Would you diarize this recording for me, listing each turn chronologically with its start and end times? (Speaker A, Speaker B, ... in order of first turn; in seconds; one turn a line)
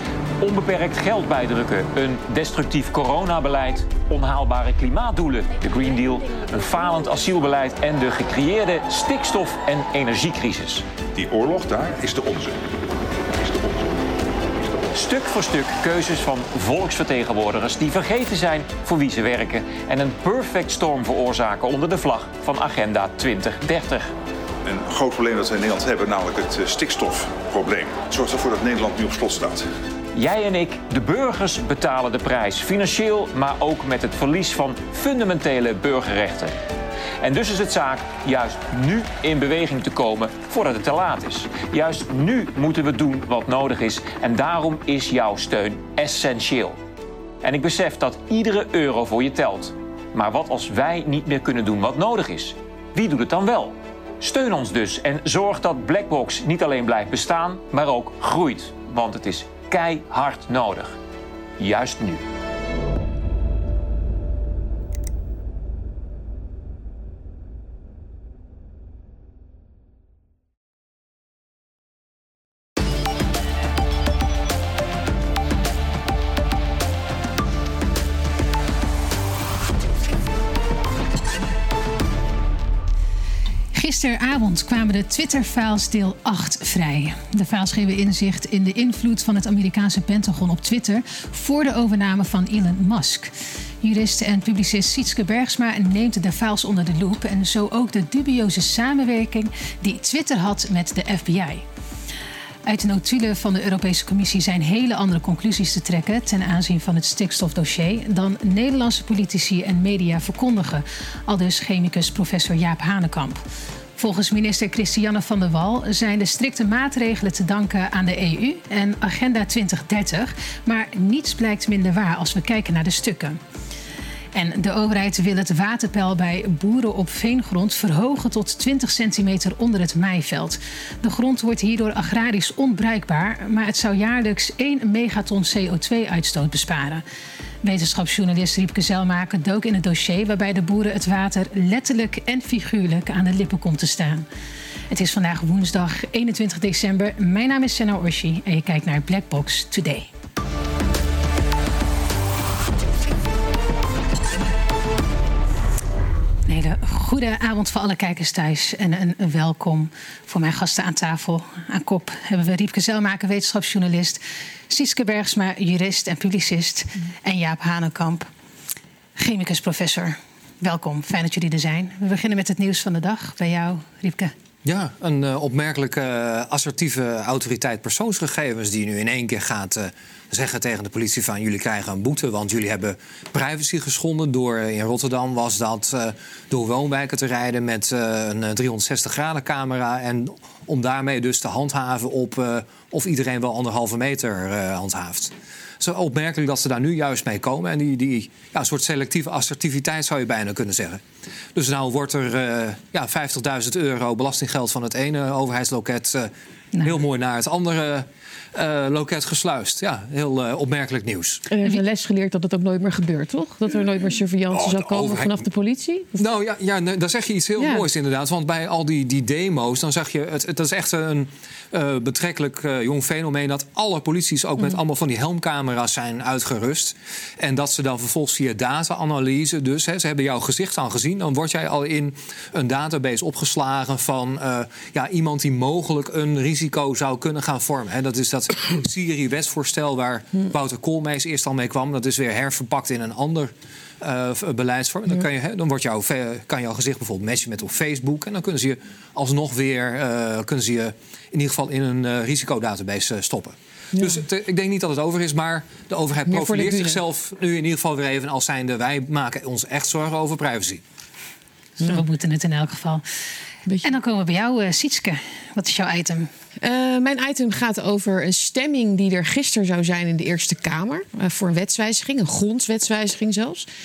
Speaker A: 0.4-10.9
Speaker B: 11.2-12.6
Speaker B: 13.4-14.0
Speaker A: 14.9-24.1
Speaker B: 24.6-29.7
Speaker A: 30.1-36.6
Speaker A: 37.2-46.8
Speaker A: 47.4-61.0
Speaker A: 61.6-62.2
Speaker C: 83.7-101.6
Speaker C: 102.7-113.4
Speaker C: 114.0-123.4
Speaker C: 124.3-137.0
Speaker C: 137.6-144.3
Speaker C: 144.9-150.1
Speaker C: 156.5-168.3
Speaker C: 169.2-174.3
Speaker D: 174.7-201.0
Speaker D: 201.6-206.3
Speaker D: 206.8-211.4
Speaker E: 211.5-216.2
Speaker D: 214.5-215.4
Speaker D: 216.2-260.8
Speaker E: 217.6-217.9
Speaker E: 253.9-254.2
Speaker E: 256.3-257.0
Speaker C: 261.8-263.0
Speaker E: 263.7-263.9
Speaker C: 263.8-266.3
Speaker E: 266.6-273.7